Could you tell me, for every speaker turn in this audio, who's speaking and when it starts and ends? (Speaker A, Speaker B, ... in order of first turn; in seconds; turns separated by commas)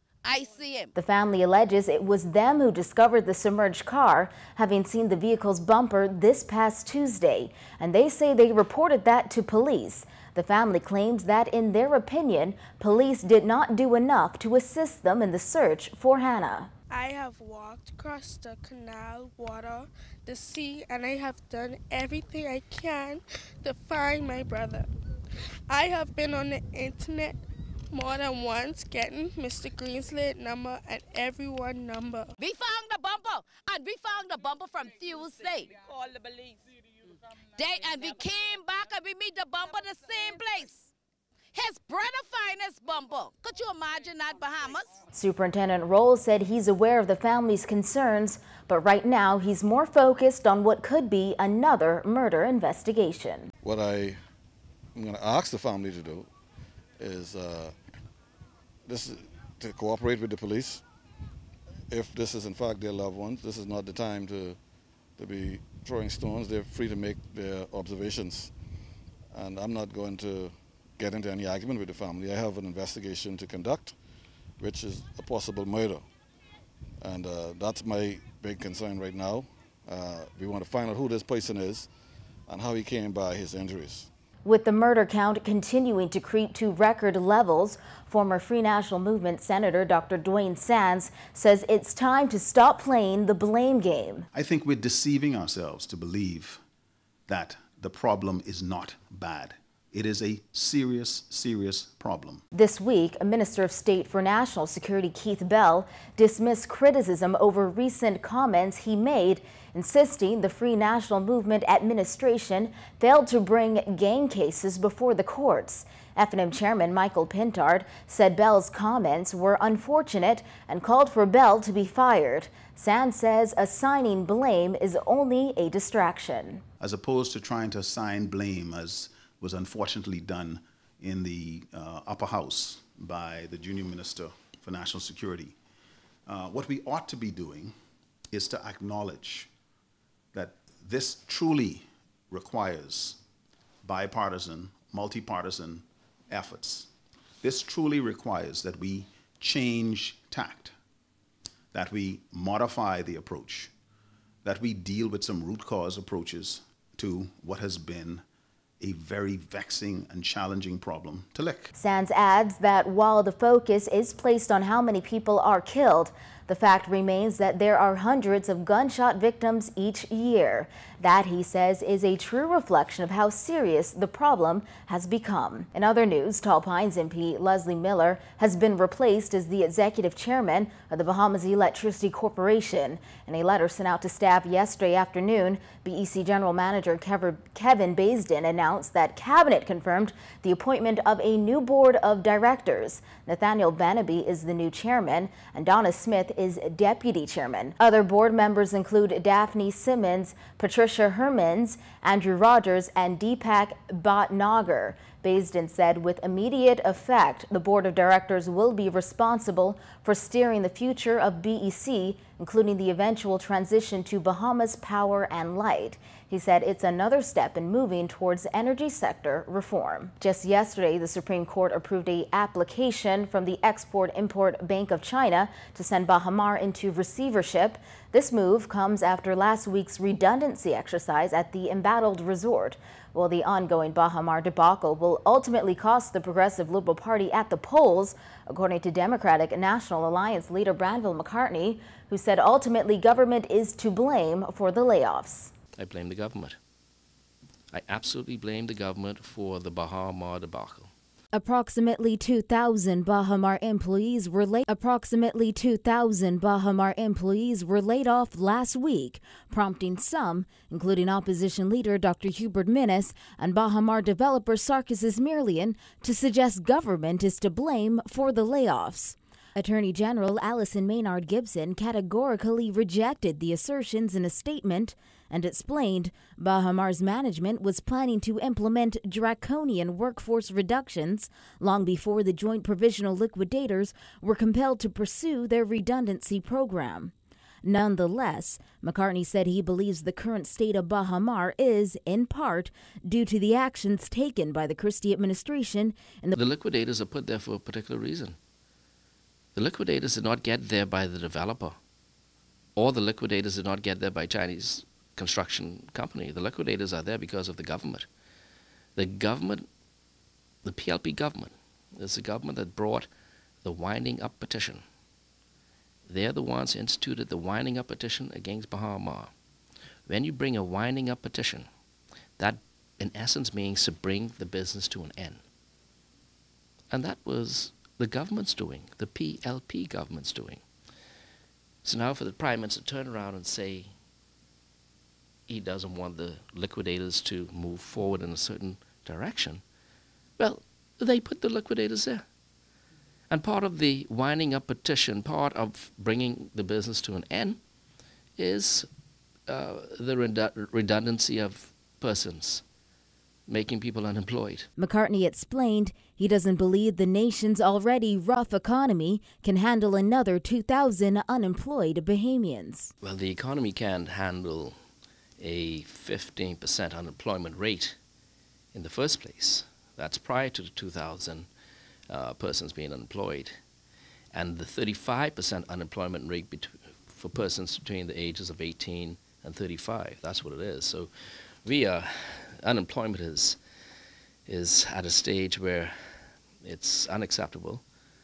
Speaker A: 0.2-0.9, Speaker B: 0.9-16.7, Speaker C: 16.9-24.9, Speaker C: 25.7-27.3, Speaker C: 27.9-32.3, Speaker A: 32.4-35.8, Speaker A: 37.5-40.9, Speaker A: 41.5-45.0, Speaker B: 45.1-53.5, Speaker D: 53.6-54.2, Speaker D: 55.0-56.3, Speaker D: 57.0-57.7, Speaker D: 58.9-60.8, Speaker D: 61.9-64.6, Speaker D: 65.2-68.5, Speaker D: 69.3-74.0, Speaker D: 74.6-76.0, Speaker D: 77.0-81.9, Speaker D: 82.5-84.1, Speaker B: 84.4-94.3, Speaker E: 94.3-96.6, Speaker E: 97.3-102.4, Speaker B: 102.5-126.6, Speaker E: 126.8-135.5, Speaker E: 136.3-137.7, Speaker E: 138.3-139.5, Speaker E: 140.3-143.2, Speaker E: 143.8-146.9, Speaker E: 147.4-150.7, Speaker E: 151.7-153.7, Speaker E: 154.4-158.2, Speaker E: 158.8-161.7, Speaker B: 161.7-245.5, Speaker F: 245.8-246.6, Speaker F: 247.7-250.9, Speaker B: 251.3-287.1, Speaker B: 287.6-296.4, Speaker F: 296.4-298.4, Speaker F: 299.6-301.8, Speaker F: 302.8-308.1, Speaker F: 308.9-309.7, Speaker F: 310.6-313.1, Speaker F: 313.6-314.8, Speaker F: 316.1-319.3, Speaker F: 320.1-321.7, Speaker F: 322.4-325.4, Speaker F: 326.9-330.6, Speaker F: 331.8-333.9, Speaker F: 335.5-339.6, Speaker F: 340.4-342.2, Speaker F: 343.3-347.6, Speaker F: 348.4-348.9, Speaker F: 349.5-352.6, Speaker F: 353.5-354.7, Speaker B: 354.8-362.9, Speaker F: 363.0-364.7, Speaker F: 365.4-367.9, Speaker F: 368.7-371.5, Speaker F: 372.1-373.6, Speaker F: 374.3-381.1, Speaker F: 381.6-383.6, Speaker F: 384.4-385.9, Speaker F: 386.6-387.8